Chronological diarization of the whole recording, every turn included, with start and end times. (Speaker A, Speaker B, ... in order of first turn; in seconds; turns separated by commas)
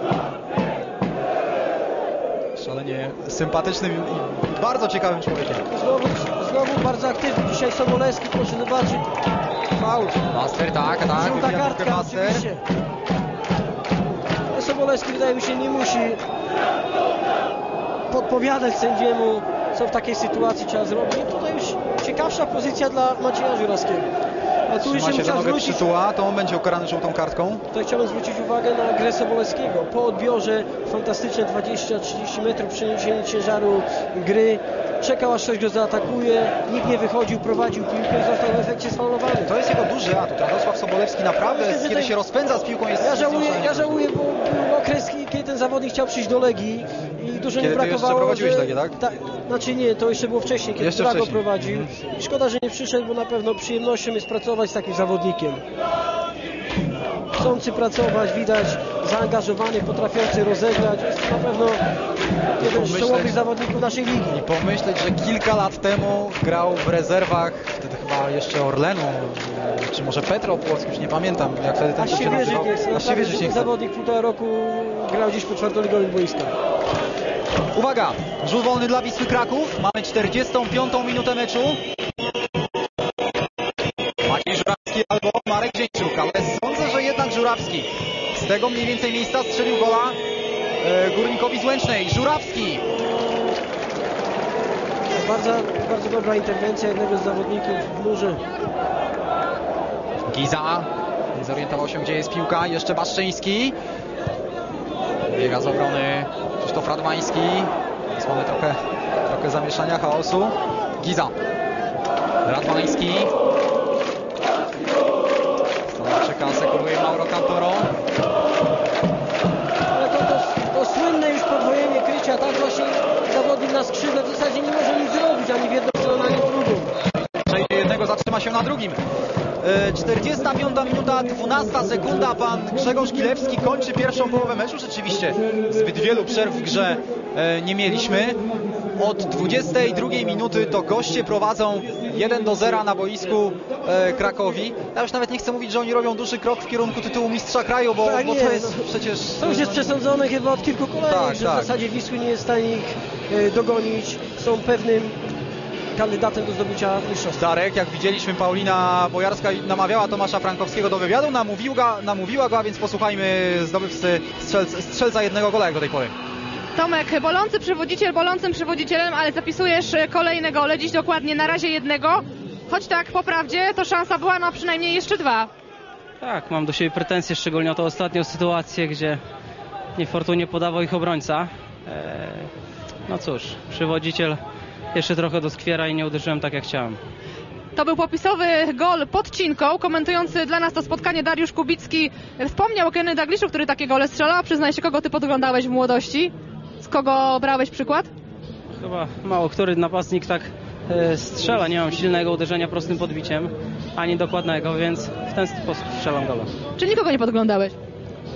Speaker A: 2.5-5.6, Speaker B: 5.7-9.1, Speaker B: 9.7-10.2, Speaker A: 10.3-12.4, Speaker B: 11.1-12.6, Speaker B: 14.5-16.2, Speaker B: 18.1-24.1, Speaker B: 24.7-25.9, Speaker A: 24.8-27.6, Speaker B: 27.7-39.5, Speaker A: 39.4-44.0, Speaker B: 41.4-42.1, Speaker B: 43.0-55.6, Speaker A: 47.6-49.0, Speaker A: 50.8-51.9, Speaker B: 57.3-61.8, Speaker B: 62.6-64.4, Speaker A: 62.6-63.4, Speaker A: 64.3-73.7, Speaker B: 72.0-76.5, Speaker A: 77.7-81.8, Speaker A: 84.2-90.2, Speaker A: 90.8-92.8, Speaker B: 95.1-98.4, Speaker A: 100.3-103.8, Speaker A: 105.3-111.3, Speaker A: 112.5-113.3, Speaker A: 115.9-117.9, Speaker B: 119.9-126.9, Speaker A: 127.4-129.0, Speaker A: 129.6-138.4, Speaker A: 139.0-149.9, Speaker B: 148.0-155.3, Speaker A: 151.1-151.8, Speaker B: 155.9-157.4, Speaker A: 157.3-166.1, Speaker C: 166.7-175.5, Speaker D: 176.2-179.2, Speaker D: 179.9-182.5, Speaker D: 183.1-184.4, Speaker D: 184.9-187.0, Speaker C: 187.7-198.1, Speaker D: 198.8-206.5, Speaker C: 206.8-207.7